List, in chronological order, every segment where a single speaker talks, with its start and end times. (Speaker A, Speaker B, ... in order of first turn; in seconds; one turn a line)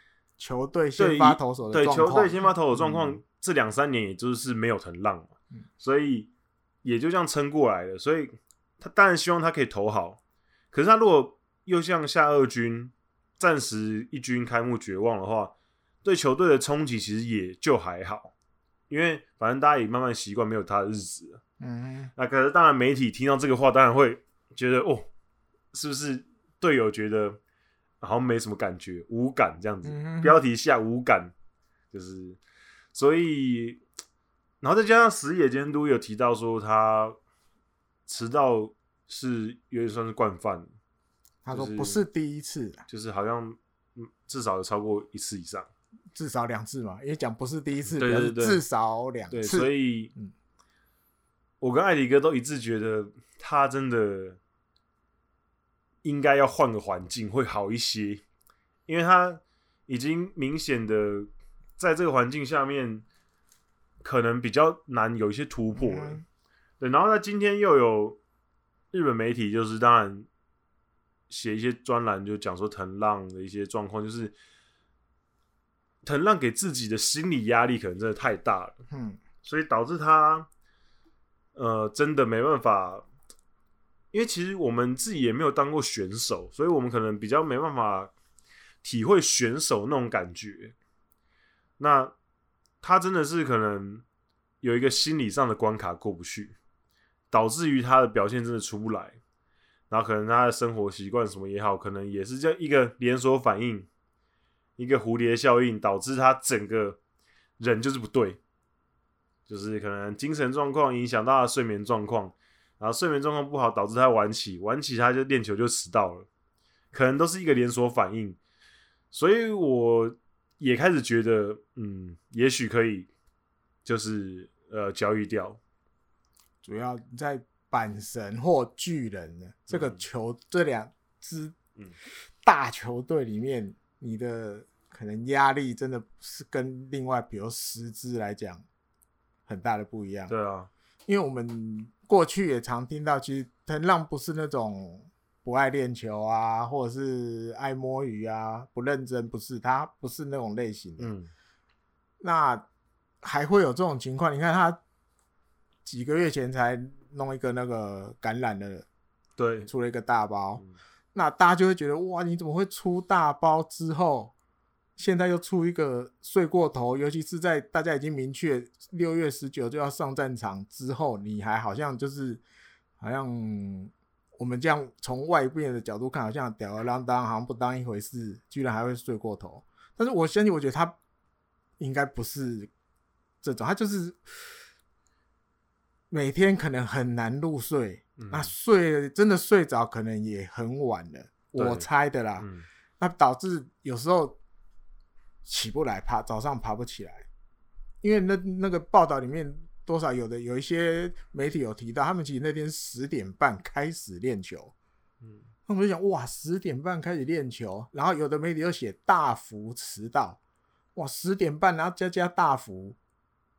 Speaker A: 0.4-3.2
Speaker B: 1.0-6.3
Speaker B: 6.8-10.2
Speaker B: 10.7-18.3
Speaker B: 18.9-21.4
Speaker A: 21.6-22.1
Speaker B: 22.2-25.1
Speaker B: 25.7-27.4
Speaker B: 28.0-31.3
Speaker A: 29.8-30.4
Speaker B: 31.9-32.4
Speaker B: 32.9-33.8
Speaker B: 34.6-37.2
Speaker B: 38.1-40.7
Speaker A: 41.4-42.8
Speaker B: 41.5-42.0
Speaker B: 42.9-45.7
Speaker A: 46.1-50.3
Speaker B: 47.9-48.6
Speaker B: 49.3-50.1
Speaker B: 51.6-54.4
Speaker B: 56.0-58.2
Speaker B: 58.9-63.0
Speaker B: 64.0-66.2
Speaker A: 65.8-66.2
Speaker B: 66.8-68.2
Speaker B: 68.9-70.3
Speaker B: 71.3-74.4
Speaker B: 76.0-78.8
Speaker A: 78.9-79.2
Speaker B: 79.4-80.5
Speaker B: 81.5-83.0
Speaker B: 84.1-88.1
Speaker B: 88.8-90.7
Speaker B: 91.8-92.1
Speaker B: 92.8-94.0
Speaker B: 94.6-96.5
Speaker B: 97.3-99.2
Speaker B: 99.9-103.9
Speaker B: 104.8-107.0
Speaker B: 107.6-108.4
Speaker B: 109.5-116.3
Speaker B: 116.9-118.4
Speaker B: 119.1-123.1
Speaker B: 123.8-125.6
Speaker A: 126.6-131.6
Speaker B: 129.7-130.0
Speaker A: 132.4-138.7
Speaker A: 139.5-140.3
Speaker B: 140.3-140.7
Speaker A: 141.1-151.1
Speaker B: 151.0-151.3
Speaker A: 152.2-152.7
Speaker A: 153.2-154.8
Speaker A: 155.9-158.9
Speaker B: 159.4-159.7
Speaker A: 159.7-160.6
Speaker A: 161.1-164.3
Speaker A: 165.0-172.4
Speaker A: 173.0-181.0
Speaker A: 181.8-182.7
Speaker A: 183.4-184.5
Speaker A: 186.1-192.5
Speaker B: 188.2-188.5
Speaker B: 191.6-191.9
Speaker B: 192.4-192.7
Speaker A: 193.0-194.4
Speaker A: 195.4-197.3
Speaker A: 198.0-204.7
Speaker A: 205.7-210.4
Speaker A: 210.9-213.0